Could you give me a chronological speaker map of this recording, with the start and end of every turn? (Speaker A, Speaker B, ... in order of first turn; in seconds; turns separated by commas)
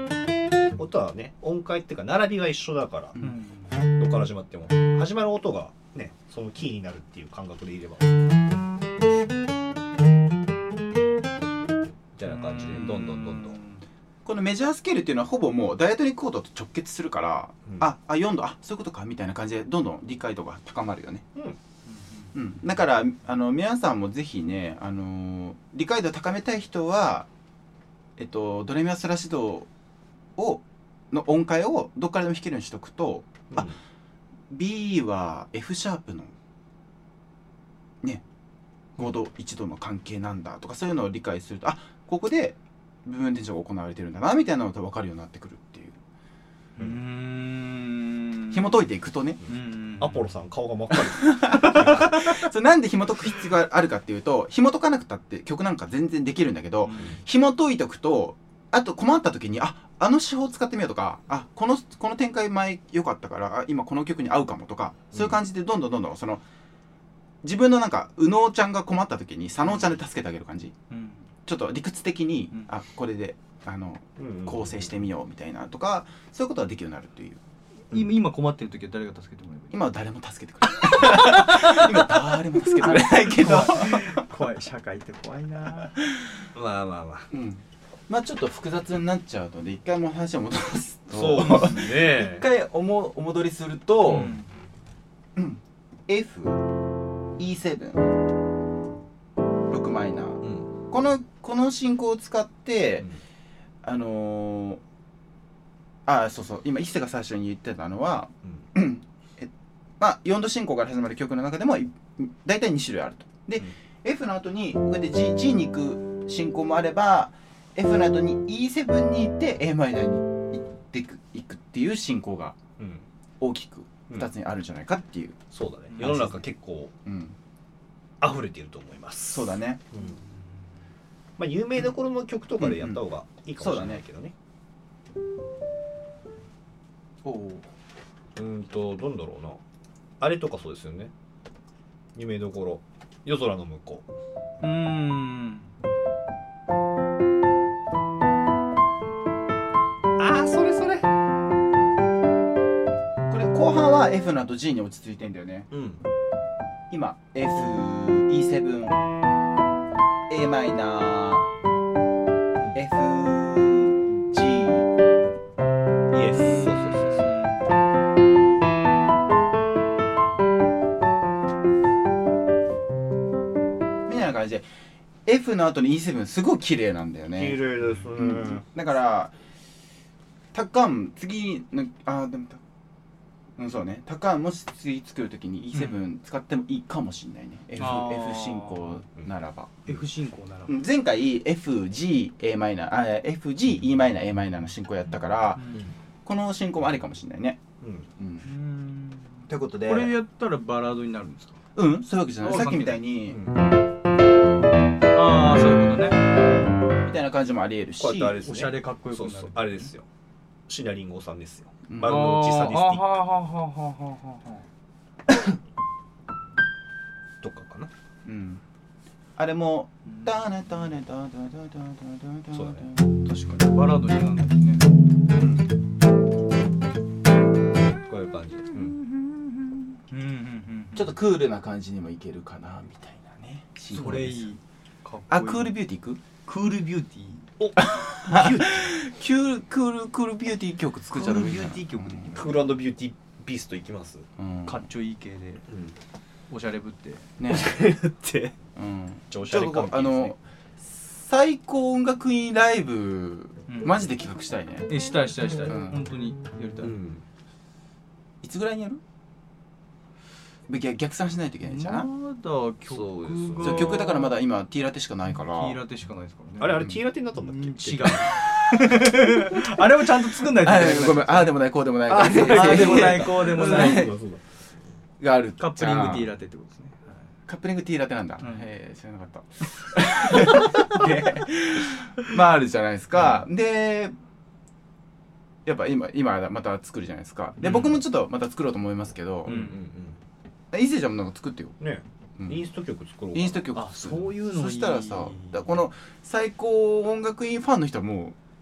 Speaker A: 0.8-3.2, Speaker B: 3.2-3.8, Speaker A: 3.9-8.2, Speaker A: 12.2-13.6, Speaker B: 12.2-13.8, Speaker C: 14.2-21.2, Speaker B: 21.9-22.3, Speaker C: 22.3-27.3, Speaker C: 28.2-29.7, Speaker C: 30.4-33.7, Speaker A: 33.5-33.8, Speaker C: 34.5-36.3, Speaker C: 39.0-46.0, Speaker B: 46.8-48.8, Speaker C: 48.5-49.4, Speaker B: 49.5-50.3, Speaker A: 50.0-52.2, Speaker C: 51.0-66.4, Speaker C: 67.4-70.7, Speaker B: 70.9-71.3, Speaker C: 71.5-77.4, Speaker A: 74.2-75.0, Speaker B: 77.9-79.8, Speaker C: 79.7-84.2, Speaker B: 80.9-81.8, Speaker B: 82.8-86.0, Speaker C: 86.0-86.3, Speaker A: 86.5-87.3, Speaker C: 87.3-94.4, Speaker A: 91.1-92.5, Speaker B: 91.4-91.9, Speaker B: 94.0-94.5, Speaker C: 95.3-96.6, Speaker C: 97.4-98.1, Speaker C: 99.7-103.1, Speaker A: 100.4-100.7, Speaker C: 103.8-104.8, Speaker C: 106.0-122.6, Speaker A: 122.8-123.0, Speaker C: 123.4-125.4, Speaker A: 125.5-126.9, Speaker C: 126.0-126.4, Speaker C: 127.0-127.3, Speaker A: 128.2-130.2, Speaker C: 129.3-129.8, Speaker A: 131.4-134.3, Speaker C: 132.6-133.0, Speaker C: 133.6-134.0, Speaker C: 137.2-137.6, Speaker A: 138.3-139.6, Speaker A: 140.2-141.1, Speaker A: 142.1-144.1, Speaker B: 144.6-145.7, Speaker A: 150.2-151.1, Speaker C: 153.3-155.7, Speaker A: 155.7-156.0, Speaker C: 156.9-159.0, Speaker C: 160.3-161.5, Speaker C: 162.7-164.9, Speaker A: 166.1-167.3, Speaker B: 166.3-167.6, Speaker C: 174.1-174.7, Speaker C: 175.2-177.6, Speaker A: 177.3-178.6, Speaker C: 178.2-179.3, Speaker C: 180.5-182.6, Speaker C: 183.6-189.9, Speaker B: 185.7-186.0, Speaker B: 187.8-189.0, Speaker B: 189.9-190.8, Speaker C: 190.7-197.6, Speaker A: 197.8-198.1, Speaker C: 198.2-198.5, Speaker B: 198.4-201.6, Speaker C: 199.5-200.1, Speaker C: 201.8-203.4, Speaker B: 202.4-203.0, Speaker A: 203.3-203.6, Speaker B: 205.1-206.2, Speaker C: 207.0-208.4, Speaker A: 208.0-210.1, Speaker B: 208.4-209.9, Speaker A: 210.7-213.2, Speaker C: 211.9-212.2, Speaker B: 212.0-214.6, Speaker A: 217.4-217.9, Speaker C: 218.2-218.6, Speaker C: 219.4-223.1, Speaker B: 220.1-220.5, Speaker A: 222.5-222.9, Speaker B: 223.2-224.8, Speaker C: 225.3-225.7, Speaker A: 228.0-229.0, Speaker B: 228.7-231.1, Speaker C: 230.9-234.5, Speaker B: 233.9-235.7, Speaker C: 235.3-236.2, Speaker B: 236.4-237.5, Speaker A: 237.6-238.9, Speaker C: 237.8-242.4, Speaker B: 241.1-242.6, Speaker A: 242.3-244.2, Speaker C: 244.4-244.8, Speaker B: 244.6-245.7, Speaker A: 245.7-245.9, Speaker B: 246.5-247.3, Speaker C: 247.4-247.8, Speaker A: 247.5-248.6, Speaker C: 248.8-254.9, Speaker A: 249.3-250.3, Speaker B: 253.7-254.0, Speaker B: 254.9-256.9, Speaker C: 255.7-256.0, Speaker A: 256.8-257.2, Speaker C: 258.4-259.0, Speaker C: 260.7-262.1, Speaker B: 261.6-264.3, Speaker A: 262.9-263.9, Speaker C: 263.6-265.8, Speaker B: 265.5-271.5, Speaker A: 266.6-268.3, Speaker C: 270.5-274.1, Speaker A: 272.1-274.4, Speaker B: 272.3-274.1, Speaker C: 275.2-276.3, Speaker B: 275.6-277.2, Speaker C: 277.5-284.1, Speaker C: 285.6-289.6, Speaker B: 287.6-288.0, Speaker B: 289.4-289.8, Speaker A: 289.4-290.2, Speaker C: 290.7-291.8, Speaker A: 291.8-293.6, Speaker C: 292.4-292.6, Speaker C: 293.3-298.4, Speaker B: 293.7-295.6